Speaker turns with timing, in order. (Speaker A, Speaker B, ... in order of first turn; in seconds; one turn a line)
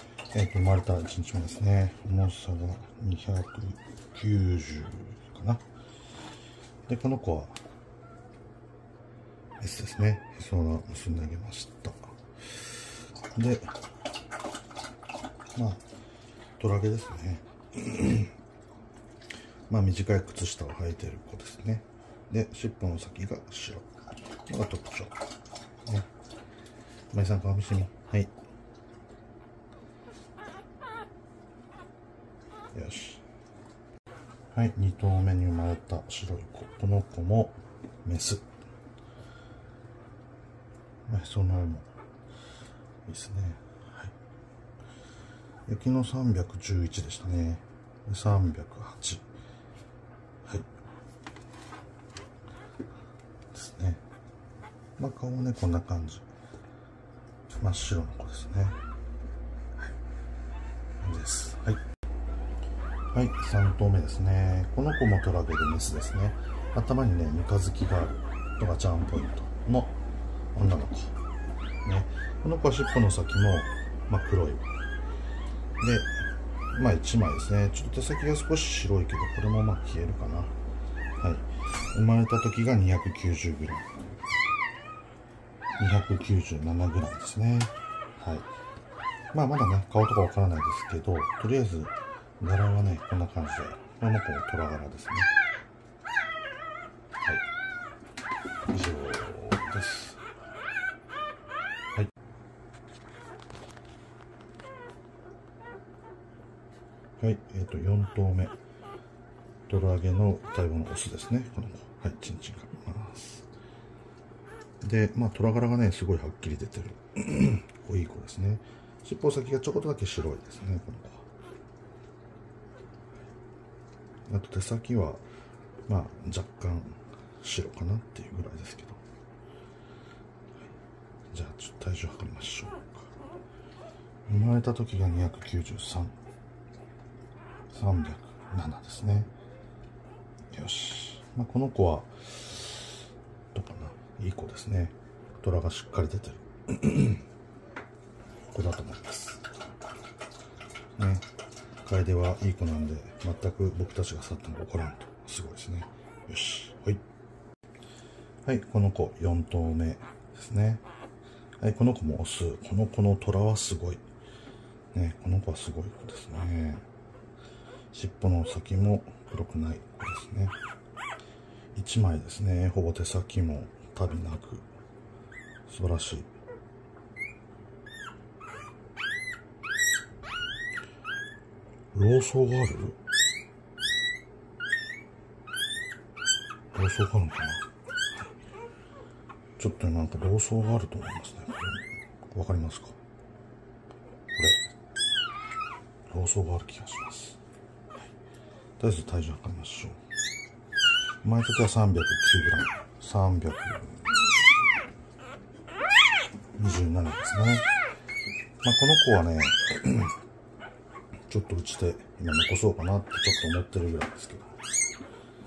Speaker A: 0.3-5.6
Speaker A: 6.9-7.6
Speaker A: 9.6-12.2
Speaker A: 13.3-13.7
Speaker A: 15.6-15.8
Speaker A: 16.6-18.3
Speaker A: 19.7-23.9
Speaker A: 24.5-25.2
Speaker A: 27.1-28.3
Speaker A: 32.7-33.2
Speaker A: 34.5-38.5
Speaker A: 41.1-41.9
Speaker A: 43.1-44.1
Speaker A: 45.7-49.2
Speaker A: 53.5-54.0
Speaker A: 55.0-56.2
Speaker A: 57.6-58.8
Speaker A: 61.0-61.8
Speaker A: 63.1-70.0
Speaker A: 70.5-71.2
Speaker A: 71.8-74.7
Speaker A: 75.8-80.5
Speaker A: 81.2-83.9
Speaker A: 85.8-88.5
Speaker A: 89.3-95.3
Speaker A: 98.7-100.2
Speaker A: 107.2-108.5
Speaker A: 109.7-113.5
Speaker A: 114.8-121.3
Speaker A: 124.3-125.2
Speaker A: 125.9-129.0
Speaker A: 131.3-133.1
Speaker A: 134.3-136.2
Speaker A: 137.7-139.3
Speaker A: 140.5-143.0
Speaker A: 143.5-147.2
Speaker A: 148.5-149.4
Speaker A: 151.0-151.3
Speaker A: 151.8-157.0
Speaker A: 158.4-160.8
Speaker A: 161.6-164.0
Speaker A: 164.9-166.8
Speaker A: 167.9-170.6
Speaker A: 171.8-174.7
Speaker A: 175.7-176.3
Speaker A: 181.9-183.0
Speaker A: 186.7-187.7
Speaker A: 189.6-193.0
Speaker A: 194.3-194.7
Speaker A: 196.1-197.4
Speaker A: 198.8-200.0
Speaker A: 201.2-204.2
Speaker A: 206.6-207.7
Speaker A: 208.6-210.1
Speaker A: 211.3-214.5